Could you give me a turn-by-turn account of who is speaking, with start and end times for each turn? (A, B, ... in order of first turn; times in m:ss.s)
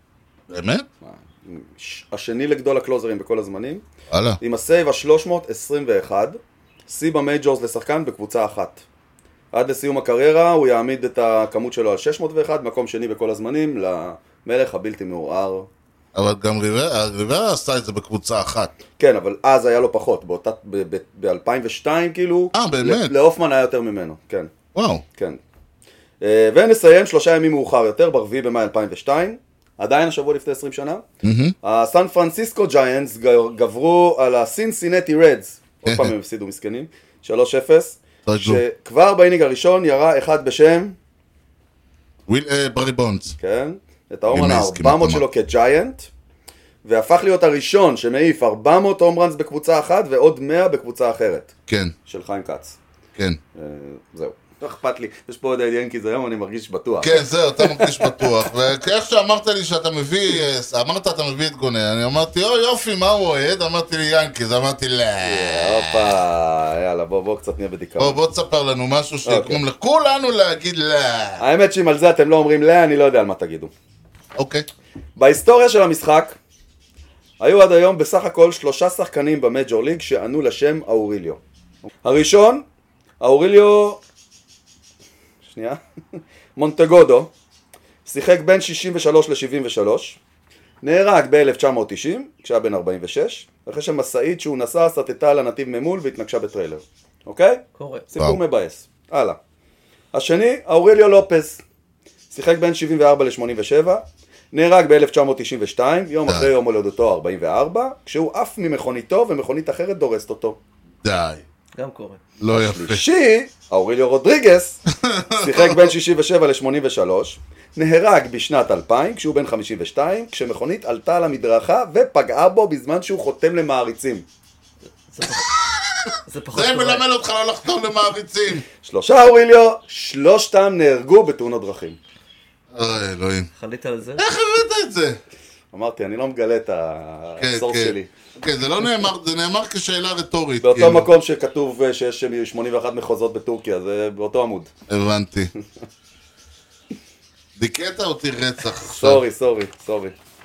0:00.5-0:00.9 A
0:01.0-0:03.8 B
0:04.1-0:04.4 A
0:04.4-0:08.8 B
0:09.5-0:15.7 B
0:16.2-0:18.7 A
0:19.0-0:24.5 B
0:22.5-0:23.2 A
0:24.8-0:25.0 A
0:25.2-0:25.4 B
0:26.2-0:31.0 B
0:31.2-0:31.6 A
0:31.6-0:41.0 B
0:35.9-0:36.1 A
0:38.3-0:38.6 A
0:42.3-0:43.4 A
0:43.4-0:46.1 B
0:44.3-0:45.2 A
0:46.8-0:51.5 B
0:51.7-0:51.9 A
0:52.1-0:52.8 B
0:53.6-0:58.3 B
0:57.0-1:06.1 A
1:05.2-1:08.2 B
1:08.0-1:11.4 A
1:09.3-1:09.6 B
1:11.4-1:13.7 B
1:14.4-1:14.7 A
1:15.2-1:16.4 B
1:17.4-1:21.4 B
1:22.0-1:22.6 B
1:23.2-1:24.0 B
1:25.4-1:25.8 B
1:26.6-1:27.3 B
1:28.0-1:30.2 B
1:30.8-1:39.4 B
1:37.8-1:38.0 C
1:40.1-1:41.6 B
1:42.3-1:50.6 B
1:51.0-1:51.4 A
1:51.8-1:52.2 C
1:52.4-1:53.0 A
1:52.5-1:54.8 B
1:54.9-1:55.9 A
1:55.4-2:04.3 B
2:05.1-2:05.6 C
2:05.2-2:08.6 A
2:06.3-2:07.0 C
2:08.8-2:12.0 B
2:12.7-2:13.5 A
2:13.6-2:14.2 C
2:14.2-2:15.2 A
2:15.7-2:18.1 B
2:17.4-2:21.1 A
2:20.6-2:24.7 B
2:24.9-2:25.5 A
2:27.6-2:29.2 A
2:28.9-2:30.2 B